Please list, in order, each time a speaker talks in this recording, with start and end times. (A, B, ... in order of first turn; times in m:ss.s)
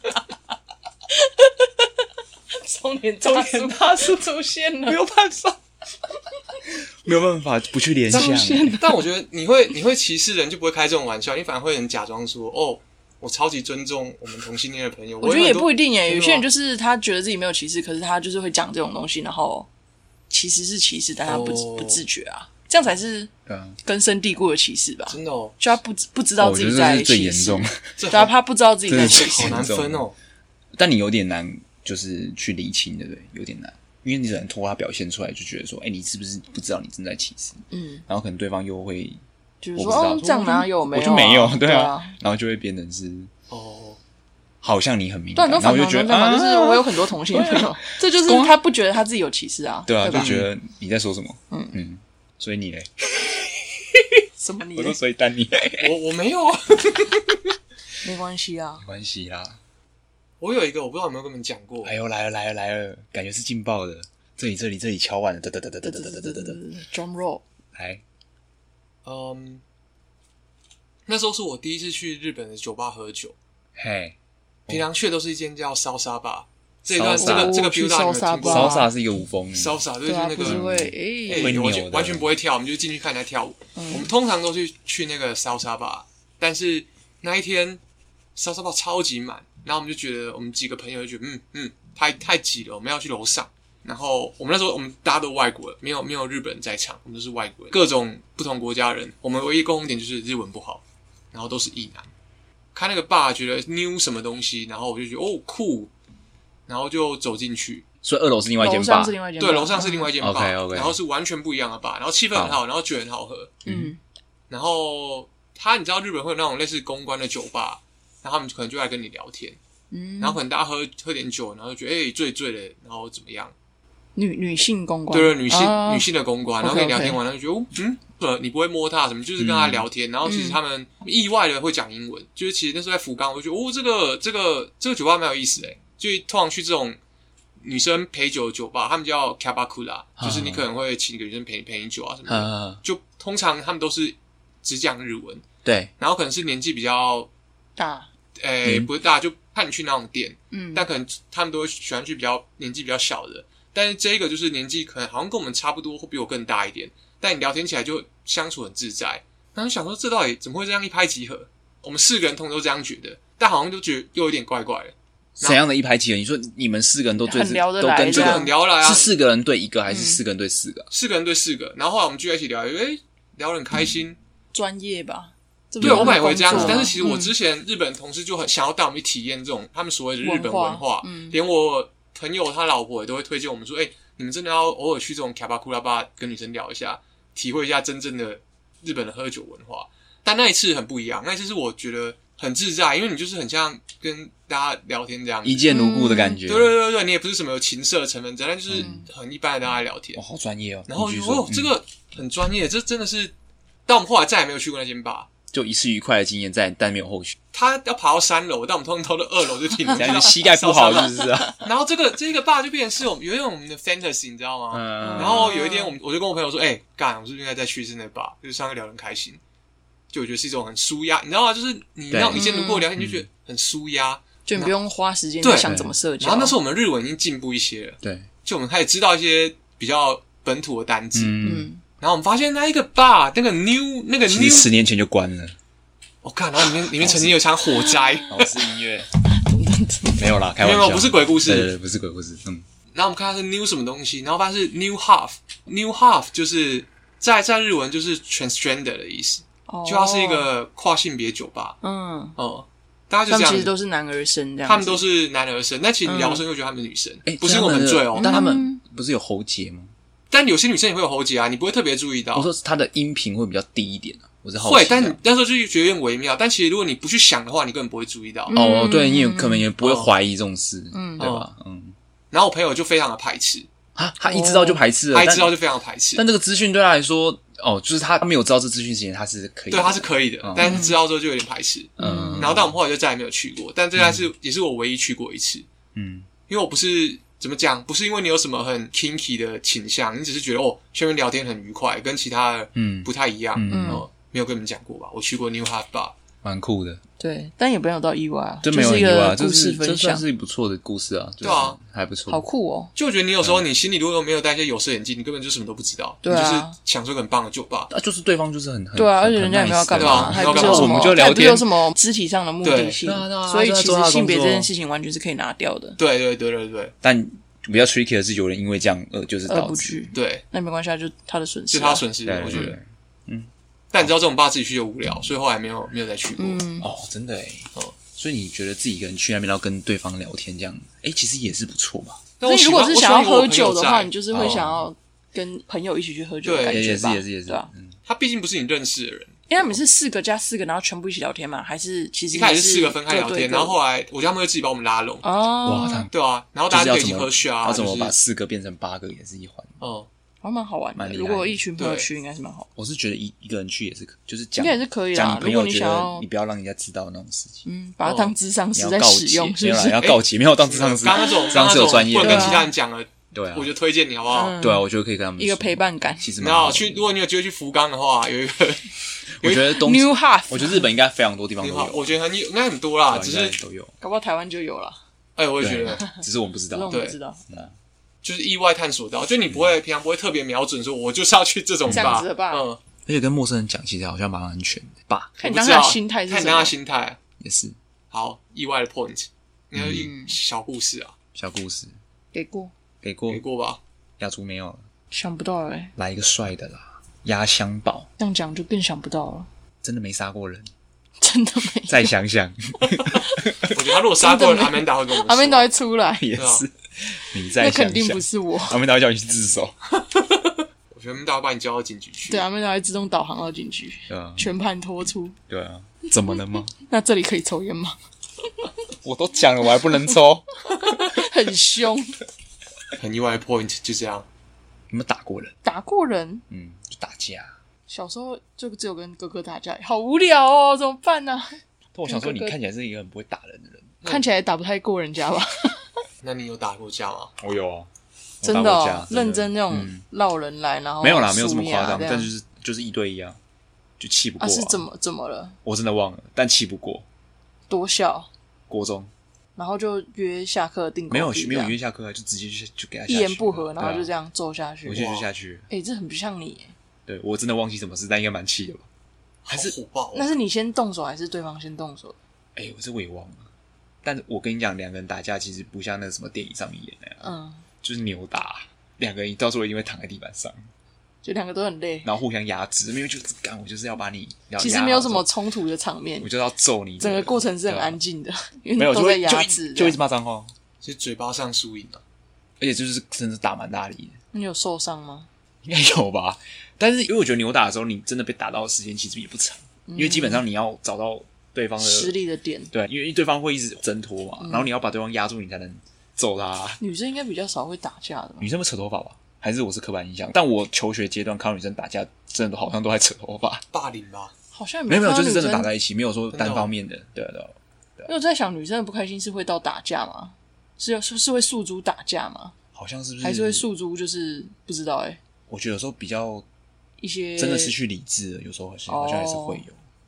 0:01.1-0:05.0 A
0:03.3-0:03.7 B
0:04.9-0:05.6 B
0:07.0-0:08.8 B
0:08.1-0:09.0 A
0:08.1-0:16.4 C
0:15.2-0:19.7 A
0:20.3-0:23.3 A
0:21.2-0:22.0 C
0:23.5-0:23.8 B
0:23.8-0:29.6 A
0:25.1-0:25.5 C
0:26.4-0:27.9 B
0:28.0-0:28.3 C
0:28.9-0:30.0 B
0:28.9-0:30.1 C
0:30.7-0:39.2 B
0:37.7-0:38.0 A
0:39.6-0:42.2 A
0:39.8-0:43.3 B
0:43.5-0:44.0 C
0:44.6-0:48.5 B
0:45.4-0:50.4 A
0:49.8-0:53.7 B
0:50.1-0:50.5 C
0:54.4-0:55.0 A
0:54.7-0:55.9 B
0:55.8-0:57.3 C
0:58.0-0:58.8 A
0:58.8-0:59.6 B
1:00.4-1:01.9 C
1:01.8-1:06.6 B
1:05.8-1:07.4 A
1:07.7-1:08.0 B
1:09.0-1:09.6 C
1:11.1-1:13.3 C
1:13.8-1:14.2 B
1:14.7-1:18.8 C
1:16.9-1:17.6 B
1:17.2-1:18.9 A
1:18.4-1:19.8 B
1:19.5-1:20.6 C
1:20.0-1:21.6 A
1:20.4-1:22.3 B
1:21.2-1:27.8 C
1:23.8-1:24.1 A
1:28.3-1:42.1 C
1:42.7-1:45.9 C
1:46.7-1:47.8 C
1:48.0-1:49.1 B
1:48.6-1:50.1 A
1:49.4-1:53.6 C
1:50.2-1:51.0 B
1:52.3-1:52.6 B
1:53.6-1:53.9 B
1:53.6-1:54.0 A
1:54.5-1:59.6 C
1:59.9-2:00.4 A
2:00.2-2:03.5 C
2:04.2-2:06.1 A
2:05.1-2:17.0 C
2:06.6-2:07.2 A
2:09.4-2:09.9 B
2:10.2-2:10.6 A
2:17.6-2:25.4 C
2:20.2-2:20.6 B
2:22.3-2:22.8 B
2:25.6-2:25.9 B
2:26.0-2:27.3 C
2:27.8-2:28.1 A
2:28.4-2:45.6 C
2:28.6-2:28.9 B
2:30.5-2:30.9 A
2:45.4-2:50.9 B
2:47.2-2:48.5 A
2:48.1-2:49.0 C
2:49.9-2:50.2 A
2:50.9-2:54.2 C
2:54.5-2:57.3 A
2:55.8-2:56.9 B
2:55.8-3:15.7 C
3:00.2-3:01.4 A
3:15.4-3:16.8 B
3:15.7-3:16.4 A
3:16.5-3:20.2 C
3:18.7-3:19.0 B
3:18.7-3:19.1 A
3:20.1-3:21.7 B
3:20.9-3:23.3 C
3:23.8-3:25.3 C
3:25.5-3:27.4 B
3:27.5-3:39.4 C
3:29.9-3:30.2 A
3:29.9-3:31.6 B
3:34.7-3:35.5 B
3:35.0-3:35.9 A
3:40.1-3:44.7 C
3:42.1-3:42.4 B
3:42.3-3:42.9 A
3:43.0-3:43.3 B
3:44.4-3:46.6 A
3:45.4-3:51.3 C
3:45.6-3:45.9 B
3:48.0-3:48.3 B
3:51.1-3:51.7 B
3:51.4-3:51.8 A
3:52.0-3:54.7 C
3:54.3-3:55.5 B
3:56.2-3:58.3 C
3:57.0-3:57.4 B
3:57.7-3:58.5 A
3:58.3-3:59.1 B
3:59.3-4:00.3 A
4:00.2-4:02.6 B
4:00.6-4:01.7 C
4:02.9-4:11.8 C
4:09.7-4:10.5 A
4:11.8-4:12.4 A
4:12.4-4:13.7 C
4:13.3-4:15.0 A
4:14.6-4:18.4 C
4:16.0-4:16.4 A
4:17.2-4:19.9 B
4:18.2-4:18.8 A
4:20.3-4:22.5 C
4:22.3-4:25.2 B
4:24.6-4:28.5 C
4:28.5-4:29.6 A
4:28.5-4:31.9 B
4:29.8-4:30.1 C
4:30.9-4:31.3 A
4:31.2-4:31.5 C
4:32.3-4:33.7 C
4:34.0-4:35.5 B
4:34.2-4:34.8 A
4:35.1-4:36.2 C
4:36.2-4:40.8 B
4:39.7-4:45.7 C
4:40.6-4:41.0 A
4:42.0-4:42.7 B
4:42.0-4:42.5 A
4:44.0-4:44.2 B
4:45.9-4:46.3 B
4:46.5-4:56.1 C
4:52.7-4:54.0 B
4:53.7-4:54.0 A
4:56.4-4:57.0 B
4:57.2-5:00.2 A
4:58.6-5:02.4 B
5:01.4-5:01.8 C
5:02.3-5:02.9 A
5:03.0-5:07.9 C
5:06.2-5:06.8 A
5:07.9-5:11.6 B
5:08.9-5:16.0 A
5:10.0-5:11.2 C
5:12.6-5:13.0 C
5:13.0-5:14.7 B
5:16.0-5:16.9 C
5:17.0-5:20.0 B
5:19.5-5:22.7 A
5:20.1-5:20.4 C
5:21.7-5:22.8 C
5:22.2-5:23.5 B
5:23.9-5:26.6 C
5:26.4-5:26.9 A
5:26.8-5:32.2 B
5:32.4-5:34.6 C
5:32.4-5:37.7 A
5:34.3-5:34.9 B
5:36.4-5:36.8 C
5:36.7-5:38.0 B
5:38.0-5:39.4 C
5:39.5-5:43.8 A
5:42.3-5:45.2 C
5:45.2-5:46.1 A
5:45.6-5:46.1 B
5:46.1-5:48.1 C
5:46.7-5:49.8 B
5:49.8-5:50.1 C
5:50.4-5:52.7 A
5:51.0-5:51.6 B
5:51.8-5:52.1 C
5:52.8-5:57.6 B
5:54.6-5:56.2 A
5:57.6-6:00.1 A
5:58.0-5:58.3 C
5:58.7-6:02.6 B
6:00.0-6:04.6 C
6:01.2-6:01.5 A
6:02.2-6:02.7 A
6:03.3-6:03.7 B
6:04.3-6:04.8 A
6:04.6-6:07.1 B
6:05.4-6:06.3 A
6:06.4-6:08.8 C
6:09.4-6:12.1 B
6:09.4-6:09.7 C
6:09.6-6:10.9 A
6:11.6-6:13.6 C
6:13.1-6:13.9 B
6:14.0-6:15.0 A
6:15.4-6:16.0 C
6:15.6-6:17.7 B
6:15.9-6:17.4 A
6:16.9-6:17.2 C
6:18.2-6:22.8 C
6:21.9-6:22.2 B
6:21.9-6:22.7 A
6:23.0-6:25.3 B
6:25.4-6:26.7 A
6:25.4-6:27.2 C
6:27.4-6:27.8 B
6:28.1-6:31.1 C
6:29.7-6:30.1 B
6:29.9-6:30.4 A
6:31.3-6:31.9 B
6:32.3-6:32.7 A
6:33.0-6:33.4 B
6:33.3-6:33.8 C
6:34.2-6:34.8 B
6:35.1-6:35.9 A
6:36.0-6:38.1 B
6:38.2-6:39.5 A
6:39.8-6:40.7 B
6:41.2-6:42.1 A
6:41.9-6:43.7 B
6:43.7-6:45.7 C
6:44.1-6:46.3 A
6:46.2-6:49.7 B
6:46.4-6:46.6 C
6:47.5-6:48.8 A
6:50.1-6:52.4 C
6:52.3-6:55.4 A
6:54.1-6:54.5 B
6:55.5-6:56.7 B
6:56.2-6:58.0 A
6:59.0-7:00.4 B
6:59.8-7:00.2 A
7:00.7-7:02.1 A
7:03.0-7:04.3 C
7:04.9-7:05.5 B
7:05.6-7:06.4 A
7:06.5-7:07.6 B
7:07.9-7:11.6 A
7:11.9-7:14.0 B
7:12.1-7:12.5 A
7:14.0-7:14.3 C
7:14.0-7:15.9 A
7:16.2-7:17.3 C
7:17.4-7:17.9 B
7:18.4-7:20.0 B
7:18.4-7:22.3 A
7:21.0-7:23.4 B
7:24.0-7:24.8 B
7:24.4-7:25.6 A
7:25.6-7:27.0 B
7:27.7-7:28.3 A
7:28.7-7:29.1 B
7:29.6-7:31.7 A
7:31.1-7:34.1 B
7:33.1-7:35.1 A
7:34.8-7:35.7 B
7:34.9-7:35.3 C
7:35.7-7:36.7 A
7:37.0-7:38.9 B
7:39.4-7:40.3 C
7:40.1-7:42.2 A
7:42.6-7:43.5 B
7:44.0-7:47.2 B
7:47.2-7:47.6 A
7:47.8-7:50.6 B
7:51.2-7:52.1 A
7:52.0-7:55.3 B
7:54.6-7:56.3 A
7:56.2-7:58.0 B
7:57.0-8:00.0 A
7:58.8-8:00.5 B
8:00.8-8:02.0 C
8:02.6-8:04.2 B
8:04.3-8:05.3 A
8:05.6-8:12.1 B
8:09.9-8:10.4 A
8:11.8-8:12.7 A
8:12.7-8:16.8 B
8:14.4-8:14.7 A
8:16.8-8:18.5 A
8:18.4-8:23.6 B
8:23.7-8:24.3 C
8:24.5-8:25.7 A
8:24.9-8:28.1 B
8:26.3-8:26.7 C
8:28.1-8:32.5 A
8:32.7-8:33.6 B
8:33.2-8:35.2 A
8:35.5-8:36.4 B
8:37.0-8:37.7 A
8:37.4-8:39.8 B
8:38.9-8:39.6 A